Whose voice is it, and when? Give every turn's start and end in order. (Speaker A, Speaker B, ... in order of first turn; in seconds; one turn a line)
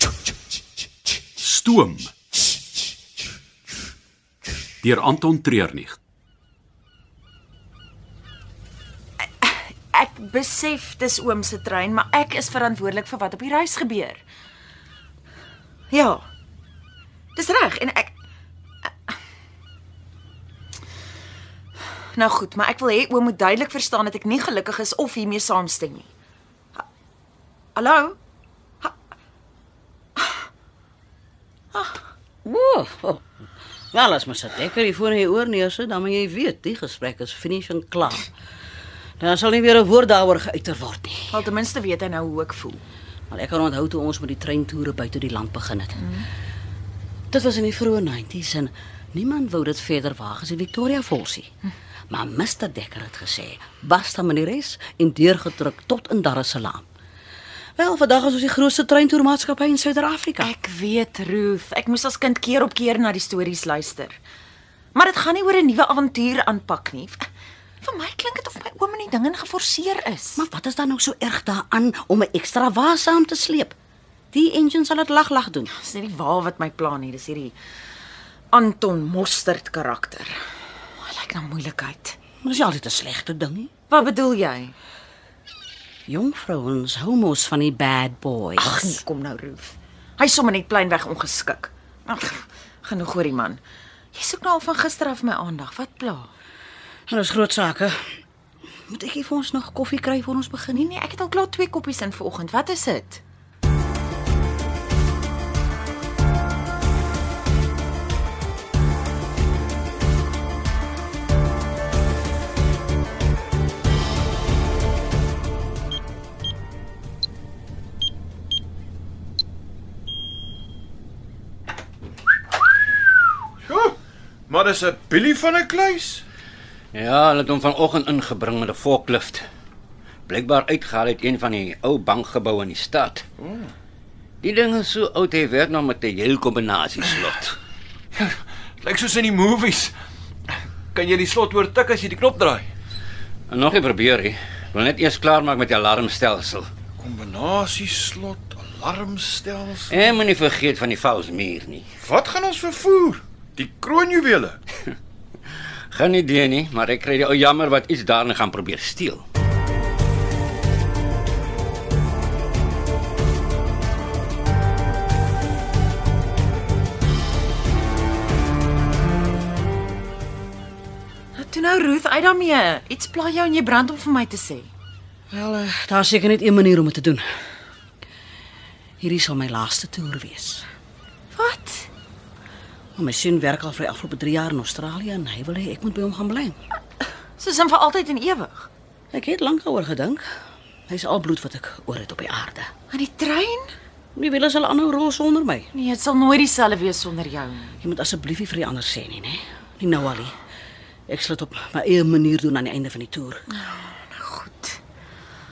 Speaker A: 1.4-2.1
Speaker A: 4.8-6.0
Speaker B: 9.4-14.2
Speaker B: 15.9-16.2
Speaker B: 17.3-18.1
Speaker B: 18.8-19.1
Speaker B: 22.1-26.1
Speaker B: 27.7-28.1
Speaker B: 31.7-32.0
Speaker C: 32.4-33.2
Speaker C: 33.9-38.3
Speaker C: 39.2-41.3
Speaker B: 41.3-42.8
Speaker C: 43.3-46.0
Speaker B: 46.0-46.2
Speaker C: 47.3-51.5
Speaker C: 52.1-56.9
Speaker C: 57.8-60.5
Speaker B: 60.4-64.2
Speaker B: 64.9-67.2
Speaker B: 67.8-70.4
Speaker C: 70.4-73.8
Speaker C: 74.3-75.7
Speaker B: 75.7-77.5
Speaker B: 78.5-80.3
Speaker B: 81.0-82.2
Speaker C: 82.4-83.7
Speaker B: 83.9-84.7
Speaker C: 86.1-89.0
Speaker B: 88.6-93.6
Speaker B: 94.1-96.3
Speaker C: 97.1-98.0
Speaker C: 98.9-100.9
Speaker B: 100.7-103.2
Speaker D: 123.7-123.9
Speaker D: 124.5-126.2
Speaker E: 126.9-129.4
Speaker E: 130.3-133.2
Speaker D: 133.4-133.7
Speaker E: 134.4-137.6
Speaker D: 138.1-139.9
Speaker D: 140.9-142.7
Speaker E: 143.5-146.7
Speaker D: 147.0-150.1
Speaker E: 149.9-151.8
Speaker D: 152.0-154.6
Speaker E: 155.9-159.2
Speaker B: 171.3-174.7
Speaker C: 175.3-177.2
Speaker C: 179.0-180.6
Speaker B: 181.3-181.9
Speaker C: 182.9-186.6
Speaker B: 187.4-188.7
Speaker C: 189.1-190.2
Speaker C: 190.9-192.7
Speaker B: 192.9-193.7
Speaker C: 194.1-195.7
Speaker B: 195.7-197.8
Speaker C: 197.8-200.3
Speaker C: 201.1-203.4
Speaker B: 203.5-204.8